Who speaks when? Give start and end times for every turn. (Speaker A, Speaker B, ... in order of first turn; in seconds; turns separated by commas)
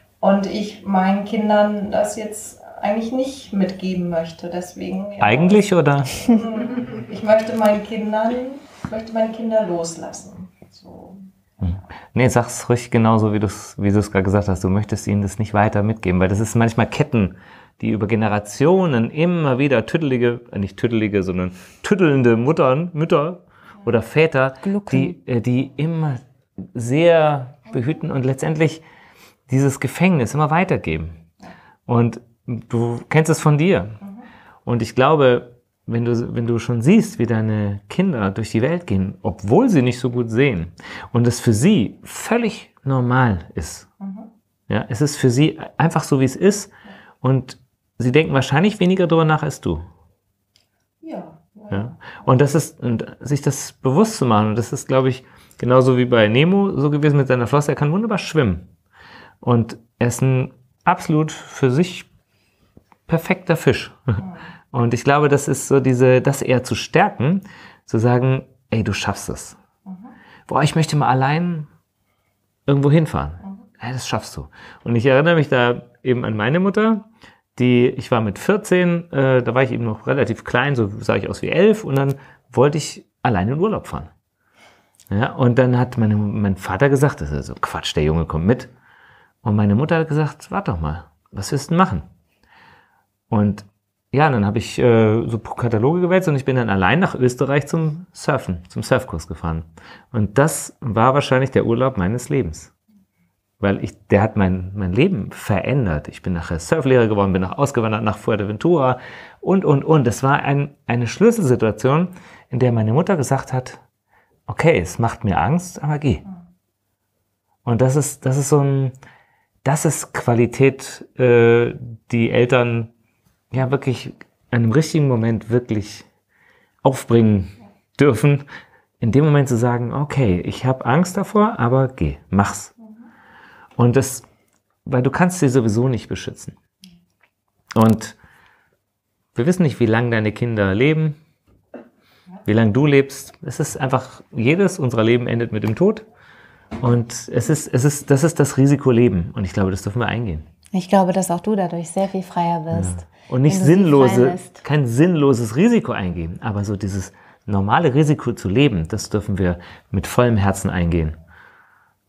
Speaker A: 0.2-11.8, Speaker B: 5.2-6.3, Speaker B: 11.6-26.2, Speaker C: 24.6-25.1, Speaker B: 26.7-28.8, Speaker B: 29.5-31.1, Speaker B: 31.9-34.0, Speaker A: 34.0-34.3, Speaker B: 34.6-43.9, Speaker A: 44.0-44.3, Speaker B: 44.7-46.7, Speaker B: 47.2-49.8, Speaker A: 51.0-52.2, Speaker B: 51.7-58.7, Speaker B: 59.4-62.1, Speaker B: 63.1-64.2, Speaker A: 64.2-64.5, Speaker B: 64.7-69.6, Speaker A: 69.9-70.1, Speaker B: 70.5-71.7, Speaker B: 72.7-84.1, Speaker B: 85.1-88.7, Speaker B: 89.4-92.0, Speaker B: 93.3-102.7, Speaker B: 103.6-113.8, Speaker B: 114.5-116.2, Speaker B: 117.7-119.0, Speaker B: 119.6-122.9, Speaker B: 123.5-126.0, Speaker B: 126.8-128.4, Speaker B: 129.0-132.7, Speaker B: 133.8-134.3, Speaker B: 134.9-136.6, Speaker B: 137.8-138.2, Speaker B: 139.3-141.2, Speaker B: 142.5-146.1, Speaker B: 146.8-150.4, Speaker C: 150.7-154.6, Speaker B: 152.7-161.2